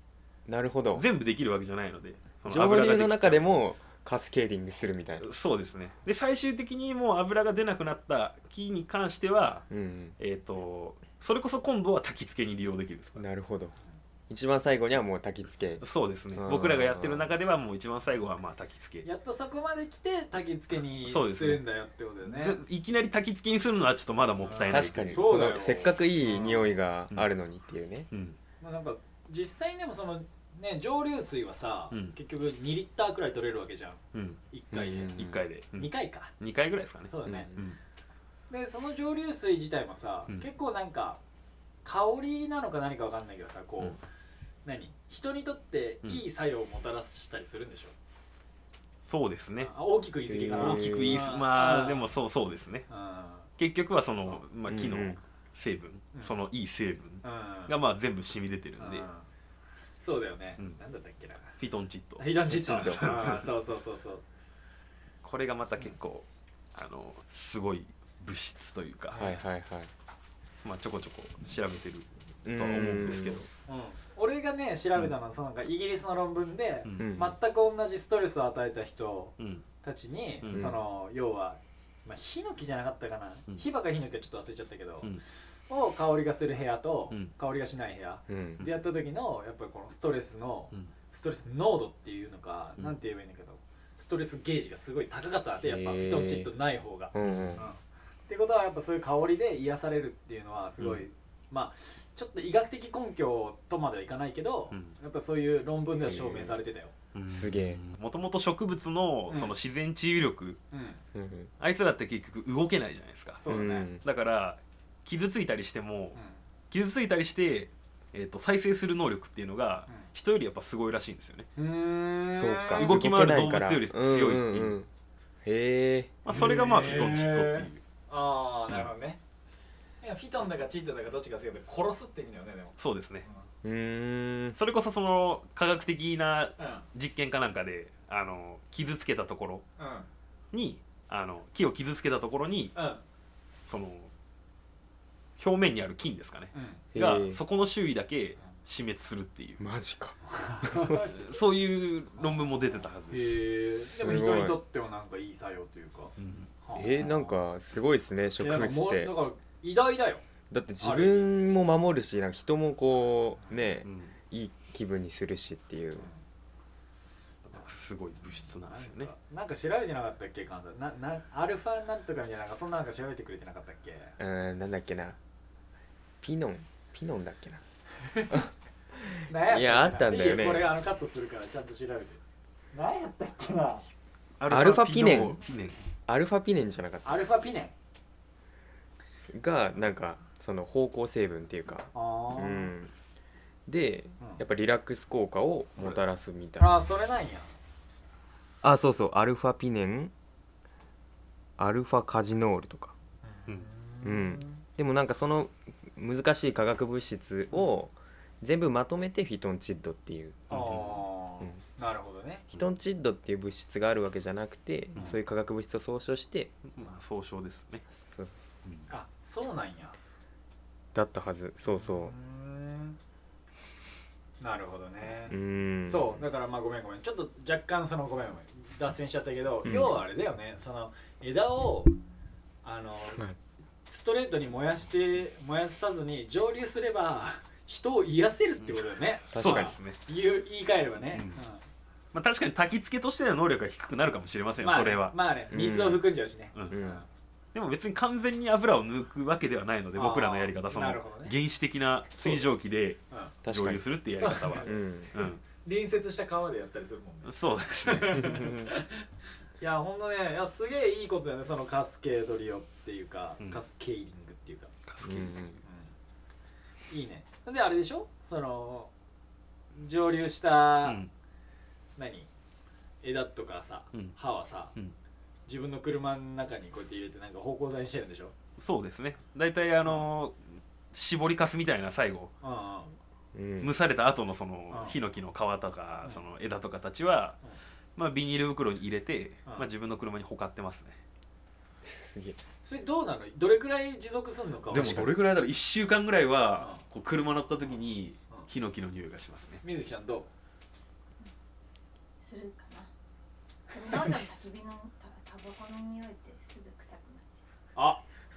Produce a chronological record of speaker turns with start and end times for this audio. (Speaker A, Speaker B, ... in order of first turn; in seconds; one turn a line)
Speaker A: 0.5-1.1
Speaker B: 0.9-3.6
Speaker A: 2.4-5.3
Speaker B: 5.2-9.6
Speaker A: 9.7-10.2
Speaker B: 10.2-13.2
Speaker A: 13.2-13.7
Speaker A: 14.3-17.3
Speaker B: 15.8-19.1
Speaker C: 19.0-22.6
Speaker B: 21.0-21.6
Speaker B: 22.2-25.7
Speaker C: 24.4-26.8
Speaker A: 24.7-28.1
Speaker B: 28.1-28.4
Speaker C: 28.6-35.2
Speaker B: 34.1-34.4
Speaker A: 34.7-35.4
Speaker B: 35.1-37.8
Speaker C: 35.7-36.3
Speaker C: 37.1-37.5
Speaker A: 37.2-37.5
Speaker C: 38.5-41.2
Speaker C: 41.8-44.0
Speaker C: 44.6-47.9
Speaker B: 49.0-49.7
Speaker C: 49.6-52.1
Speaker A: 50.3-51.2
Speaker B: 50.5-52.9
Speaker C: 52.9-53.5
Speaker B: 53.6-59.1
Speaker A: 54.7-55.2
Speaker C: 57.2-57.7
Speaker C: 58.8-59.2
Speaker C: 60.0-61.5
Speaker B: 61.6-63.4
Speaker C: 62.2-64.2
Speaker A: 62.5-63.4
Speaker B: 65.2-69.2
Speaker C: 69.1-69.4
Speaker A: 69.1-69.9
Speaker B: 70.6-73.5
Speaker A: 72.4-73.4
Speaker C: 73.7-106.9
Speaker B: 76.8-77.3
Speaker A: 77.0-77.3
Speaker B: 79.4-79.6
Speaker B: 80.4-80.8
Speaker A: 80.5-80.8
Speaker A: 88.3-88.6
Speaker A: 95.6-96.5
Speaker A: 97.1-97.7
Speaker B: 97.2-97.7
Speaker B: 104.7-105.0
Speaker A: 106.0-106.6
Speaker B: 107.1-110.6
Speaker A: 107.3-107.8
Speaker C: 109.3-109.5
Speaker C: 110.7-111.0
Speaker A: 111.1-111.5
Speaker B: 111.6-116.2
Speaker C: 113.4-113.9
Speaker A: 113.5-114.0
Speaker C: 116.1-116.4
Speaker B: 116.7-121.5
Speaker C: 121.6-123.0
Speaker A: 122.3-124.9
Speaker B: 122.7-124.8
Speaker A: 125.4-126.2
Speaker B: 126.2-127.8
Speaker C: 126.3-129.2
Speaker C: 130.0-133.4
Speaker B: 132.8-133.2
Speaker A: 133.6-134.6
Speaker B: 134.6-139.6
Speaker C: 136.6-136.8
Speaker C: 139.8-140.1
Speaker B: 140.5-142.7
Speaker C: 142.7-143.0
Speaker B: 143.7-144.1
Speaker B: 145.4-149.6
Speaker C: 146.5-146.8
Speaker A: 146.9-147.4
Speaker A: 149.6-151.0
Speaker C: 150.3-151.4
Speaker B: 151.2-153.3
Speaker C: 152.1-157.4
Speaker A: 153.8-154.6
Speaker B: 156.2-156.5
Speaker A: 156.7-159.1
Speaker C: 158.4-160.2
Speaker A: 160.5-166.1
Speaker C: 160.8-161.3
Speaker B: 163.8-164.1
Speaker B: 167.4-169.1
Speaker C: 168.6-174.2
Speaker A: 174.2-175.2
Speaker A: 176.2-177.6
Speaker C: 178.1-178.4
Speaker A: 178.9-180.7
Speaker C: 179.3-182.2
Speaker C: 182.7-183.9
Speaker B: 184.4-185.8
Speaker A: 184.5-185.4
Speaker A: 186.1-187.3
Speaker C: 187.0-187.7
Speaker A: 189.3-192.9
Speaker C: 191.9-192.7
Speaker A: 193.7-196.7
Speaker C: 196.6-197.5
Speaker A: 198.6-200.1
Speaker A: 201.6-202.9
Speaker C: 203.2-204.6
Speaker A: 204.0-210.7
Speaker B: 210.5-211.0
Speaker C: 210.5-212.4
Speaker A: 212.5-216.5
Speaker B: 216.7-217.8
Speaker C: 218.9-219.9
Speaker A: 220.9-222.1
Speaker C: 221.7-223.0
Speaker C: 224.4-231.9
Speaker A: 225.1-226.3
Speaker A: 229.6-229.9
Speaker C: 232.6-233.2
Speaker C: 233.9-241.6
Speaker B: 238.6-240.0
Speaker A: 239.3-239.8
Speaker B: 241.1-241.4
Speaker B: 242.1-245.2
Speaker C: 244.6-247.1
Speaker A: 245.5-246.0
Speaker A: 246.7-247.0
Speaker B: 247.5-255.4
Speaker C: 249.9-251.3
Speaker C: 252.1-252.5
Speaker A: 253.4-253.8
Speaker C: 254.1-254.8
Speaker A: 254.6-255.1
Speaker C: 255.5-259.0
Speaker B: 257.2-258.4
Speaker A: 258.2-258.7
Speaker C: 259.6-264.7
Speaker B: 264.9-265.6
Speaker A: 265.0-265.5
Speaker C: 265.6-265.9
Speaker C: 266.9-268.9
Speaker C: 269.7-271.0
Speaker B: 270.8-271.1
Speaker C: 272.0-272.3
Speaker C: 273.0-274.7
Speaker C: 275.5-278.3
Speaker B: 278.6-282.3
Speaker C: 282.4-282.9
Speaker A: 283.3-283.7
Speaker B: 283.6-287.4
Speaker C: 284.7-285.0
Speaker B: 287.9-291.0
Speaker A: 291.8-292.4
Speaker C: 292.6-295.1
Speaker A: 294.7-295.1
Speaker B: 294.7-299.6
Speaker C: 296.6-296.8
Speaker C: 299.6-300.3
Speaker D: 302.2-302.9
Speaker D: 303.7-307.5
Speaker C: 307.7-308.0